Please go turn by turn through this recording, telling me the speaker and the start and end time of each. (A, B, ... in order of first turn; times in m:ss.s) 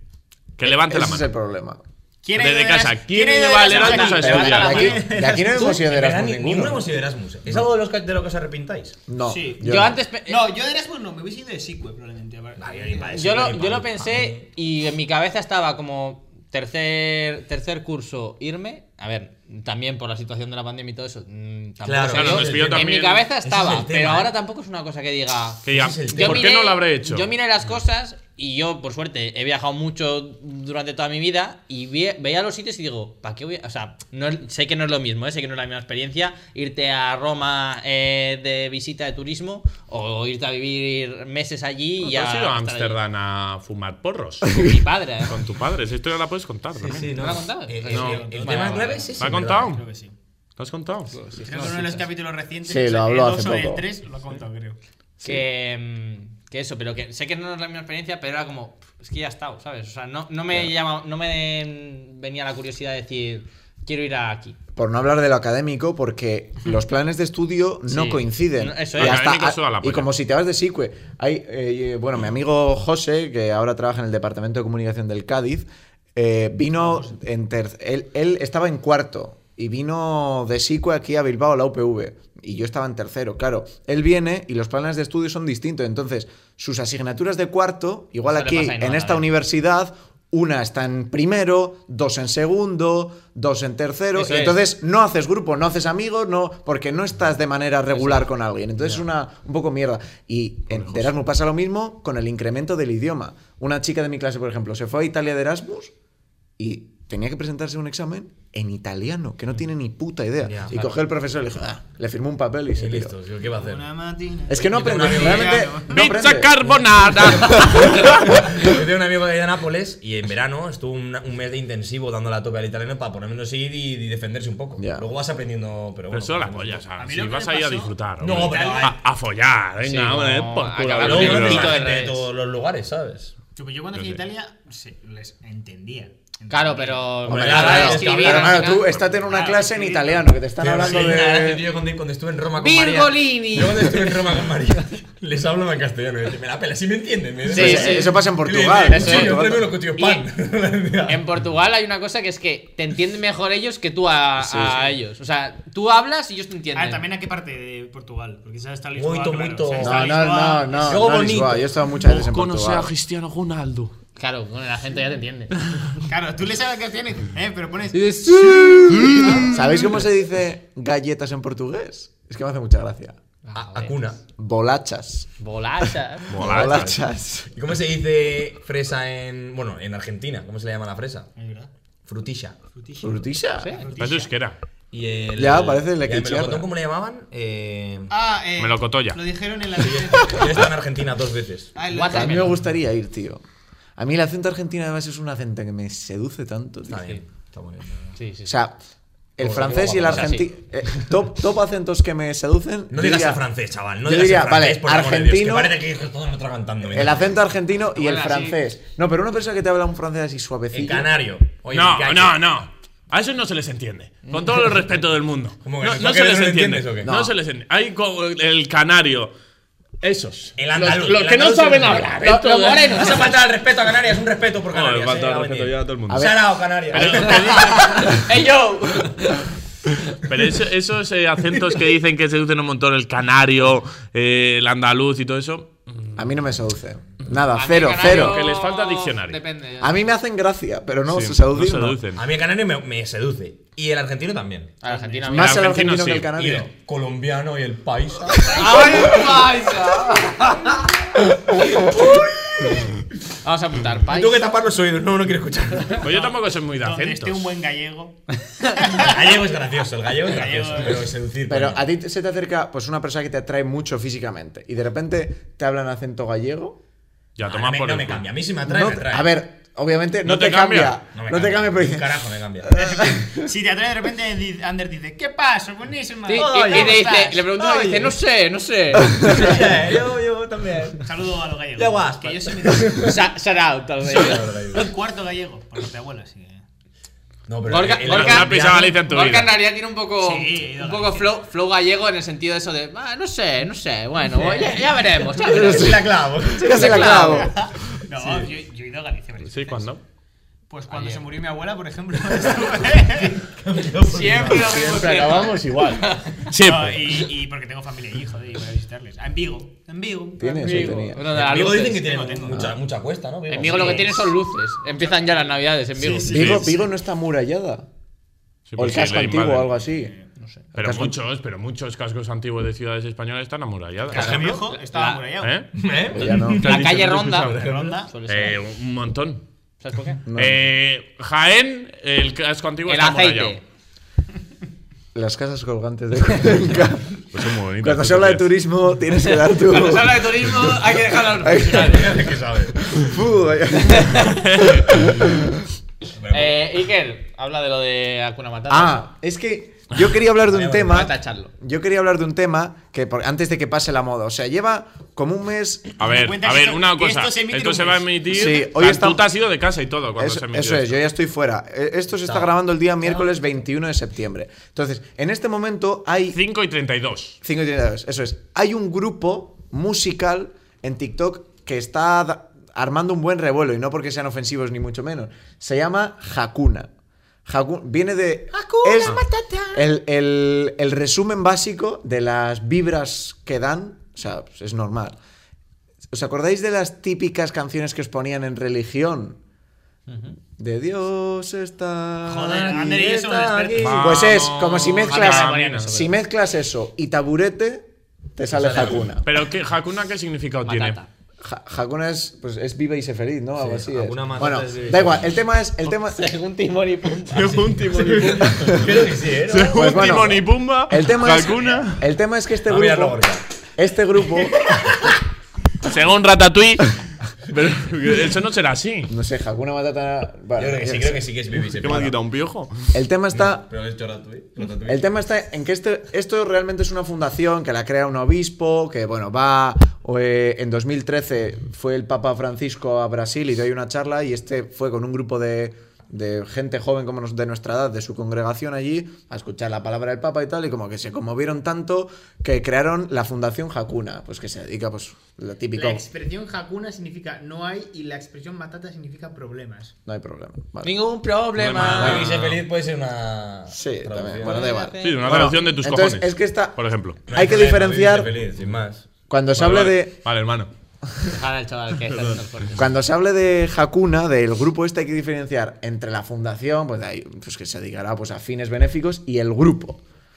0:00.6-0:01.2 A
0:00.6-0:01.8 B
0:02.2-0:05.8 C
0:02.4-0:04.9 A
0:03.7-0:09.0 D
0:04.2-0:06.9 B
0:09.1-0:10.0 B
0:09.2-0:09.7 C
0:09.6-0:10.5 E
0:10.3-0:13.6 C
0:12.6-0:14.4 D
0:13.1-0:43.0 E
0:21.8-0:24.3 D
0:22.1-0:23.3 A
0:25.6-0:27.3 A
0:25.7-0:26.5 D
0:42.0-0:44.7 A
0:44.5-0:45.4 E
0:45.2-0:47.3 A
0:46.7-0:49.8 D
0:47.2-0:49.0 E
0:47.9-0:50.1 C
0:47.9-0:48.3 A
0:49.2-0:49.8 A
0:50.6-0:51.2 A
0:51.1-0:52.0 E
0:51.4-0:54.8 C
0:52.6-0:53.8 B
0:55.2-1:04.6 E
1:04.8-1:45.9 B
1:07.9-1:09.2 E
1:08.9-1:10.1 A
1:16.8-1:17.1 C
1:28.2-1:29.3 E
1:34.1-1:34.6 E
1:37.9-1:38.3 E
1:46.6-1:53.1 B
1:50.4-1:51.0 D
1:52.7-1:53.9 D
1:53.6-1:56.0 C
1:54.5-1:58.7 B
1:54.5-1:55.7 D
1:55.9-1:58.2 A
1:57.0-2:06.8 D
2:04.8-2:05.0 B
2:06.1-2:11.8 A
2:07.0-2:09.0 C
2:08.2-2:08.9 D
2:09.8-2:12.2 E
2:11.0-2:13.3 D
2:13.6-2:17.1 C
2:13.9-2:14.2 A
2:16.5-2:18.9 E
2:17.2-2:18.6 D
2:17.2-2:21.6 B
2:19.2-2:20.2 C
2:20.6-2:31.2 D
2:22.6-2:24.5 E
2:27.5-2:28.2 E
2:27.5-2:29.7 B
2:28.8-2:29.4 E
2:30.0-2:30.2 E
2:31.0-2:37.0 E
2:34.4-2:34.9 B
2:36.7-2:41.2 C
2:38.9-2:40.2 D
2:39.8-2:42.9 B
2:40.8-2:41.7 D
2:42.0-2:43.9 A
2:44.2-2:45.5 E
2:46.0-2:49.5 C
2:47.9-2:49.5 E
2:48.5-2:53.2 B
2:53.4-2:53.9 E
2:53.5-2:54.2 D
2:54.4-2:55.3 B
2:55.4-2:56.9 E
2:55.8-2:57.5 B
2:56.3-2:56.9 A
2:57.5-3:01.3 D
3:01.4-3:01.7 C
3:02.0-3:02.6 D
3:02.8-3:04.3 C
3:03.0-3:03.7 B
3:03.6-3:03.8 E
3:04.0-3:04.6 A
3:04.9-3:08.1 D
3:05.4-3:06.7 B
3:08.1-3:10.7 C
3:08.6-3:09.2 A
3:09.8-3:11.7 D
3:11.7-3:12.6 C
3:11.9-3:12.6 E
3:12.1-3:13.4 B
3:14.0-3:17.1 B
3:16.9-3:18.1 D
3:18.2-3:18.5 E
3:18.4-3:18.8 B
3:19.4-3:23.4 B
3:19.4-3:20.4 D
3:20.1-3:20.4 E
3:22.9-3:27.3 D
3:24.0-3:25.8 B
3:26.8-3:31.1 B
3:27.9-3:28.6 E
3:30.7-3:32.4 D
3:31.7-3:39.3 A
3:35.6-3:37.1 D
3:37.0-3:37.3 B
3:40.0-3:43.0 A
3:40.6-3:42.2 D
3:42.1-3:43.4 E
3:42.9-3:48.0 D
3:44.7-3:46.3 A
3:46.1-3:46.4 B
3:46.9-3:48.2 A
3:47.2-3:49.5 E
3:50.1-3:56.1 A
3:56.2-3:58.4 B
3:57.5-4:00.0 E
3:57.9-3:59.4 A
3:59.8-4:02.0 B
4:01.1-4:02.2 A
4:02.1-4:04.8 D
4:04.8-4:05.8 E
4:04.8-4:05.2 C
4:05.3-4:06.7 B
4:05.3-4:06.3 A
4:06.3-4:09.2 D
4:08.4-4:10.9 E
4:11.5-4:12.9 D
4:13.4-4:14.4 E
4:14.1-4:16.0 D
4:16.0-4:17.5 A
4:16.0-4:19.5 C
4:18.9-4:21.8 D
4:20.2-4:21.0 C
4:21.5-4:26.8 B
4:27.4-4:28.2 A
4:27.4-4:29.3 D
4:28.6-4:33.4 B
4:30.2-4:31.0 A
4:31.1-4:32.8 D
4:32.8-4:37.4 C
4:36.3-4:39.6 E
4:36.3-4:38.2 D
4:39.2-4:41.1 D
4:41.0-4:43.2 C
4:41.7-4:43.2 D
4:43.0-4:44.9 E
4:44.0-4:44.8 D
4:44.7-4:46.6 C
4:47.5-4:49.0 D
4:47.7-4:55.9 E
4:48.0-4:49.6 A
4:50.2-4:51.3 C
4:54.4-4:54.8 D
4:55.3-4:57.2 D
4:55.5-4:57.6 B
4:56.6-4:57.5 E
4:56.9-4:59.9 C
4:59.4-5:00.0 A
5:00.7-5:03.4 C
5:00.9-5:01.2 E
5:03.1-5:04.8 D
5:04.0-5:06.4 E
5:04.6-5:07.1 A
5:06.5-5:11.0 C
5:10.4-5:11.2 B
5:10.5-5:12.3 E
5:11.3-5:14.2 D
5:11.6-5:12.7 C
5:12.5-5:12.8 B
5:13.5-5:16.6 E
5:13.6-5:14.3 C
5:14.9-5:15.5 C
5:16.0-5:16.3 D
5:16.1-5:16.8 C
5:16.3-5:17.9 B
5:16.3-5:16.7 A
5:18.7-5:19.7 A
5:18.8-5:20.1 B
5:19.9-5:20.3 C
5:20.7-5:24.3 A
5:20.8-5:21.2 B
5:24.1-5:24.6 D
5:24.1-5:25.6 C
5:24.1-5:25.2 E
5:25.4-5:25.7 A
5:25.7-5:28.0 D
5:26.1-5:26.6 B
5:26.6-5:27.7 A
5:26.6-5:28.6 E
5:27.5-5:28.1 C
5:28.3-5:29.4 A
5:29.8-5:30.2 E
5:30.3-5:30.6 B
5:30.3-5:33.6 A
5:32.8-5:33.6 E
5:35.1-5:37.2 B
5:37.3-5:38.5 A
5:37.8-5:40.7 B
5:39.4-5:42.1 E
5:41.4-5:45.5 B
5:41.5-5:42.9 D
5:44.4-5:44.9 A
5:46.2-5:46.6 D
5:46.3-5:49.0 E
5:48.7-5:55.9 B
5:50.5-5:51.1 D
5:50.9-5:51.5 E
5:56.0-6:00.9 A
5:56.0-5:58.2 C
5:58.3-5:59.2 B
6:00.2-6:06.4 B
6:06.3-6:07.4 A
6:07.4-6:16.9 B
6:17.4-6:19.2 B
6:18.5-6:19.8 E
6:19.7-6:25.2 B
6:26.1-6:29.4 B
6:30.1-6:30.4 E
6:30.6-6:33.0 B
6:32.3-6:34.0 C
6:32.6-6:34.3 D
6:33.8-6:35.9 A
6:34.0-6:39.3 B
6:35.1-6:36.1 E
6:38.5-6:39.1 D
6:39.2-6:41.0 A
6:40.6-6:41.1 E
6:41.4-6:46.2 B
6:43.6-6:45.4 D
6:45.9-6:47.8 E
6:47.3-6:48.9 A
6:47.4-6:49.9 D
6:49.5-6:52.0 A
6:49.6-6:54.6 B
6:52.7-6:53.4 D
6:54.5-6:55.1 D
6:55.8-6:59.1 A
6:59.1-7:01.3 B
7:00.6-7:02.1 D
7:01.8-7:02.9 A
7:02.9-7:03.7 B
7:03.3-7:05.2 D
7:04.8-7:26.0 B
7:25.7-7:29.9 C
7:30.0-7:30.9 B
7:30.8-7:32.2 E
7:31.6-7:32.6 A
7:31.7-7:34.7 D
7:33.7-7:38.3 B
7:34.4-7:35.5 E
7:35.0-7:37.2 A
7:37.3-7:39.1 D
7:39.3-7:40.2 B
7:39.6-7:40.7 A
7:41.3-7:42.8 E
7:42.7-7:50.0 B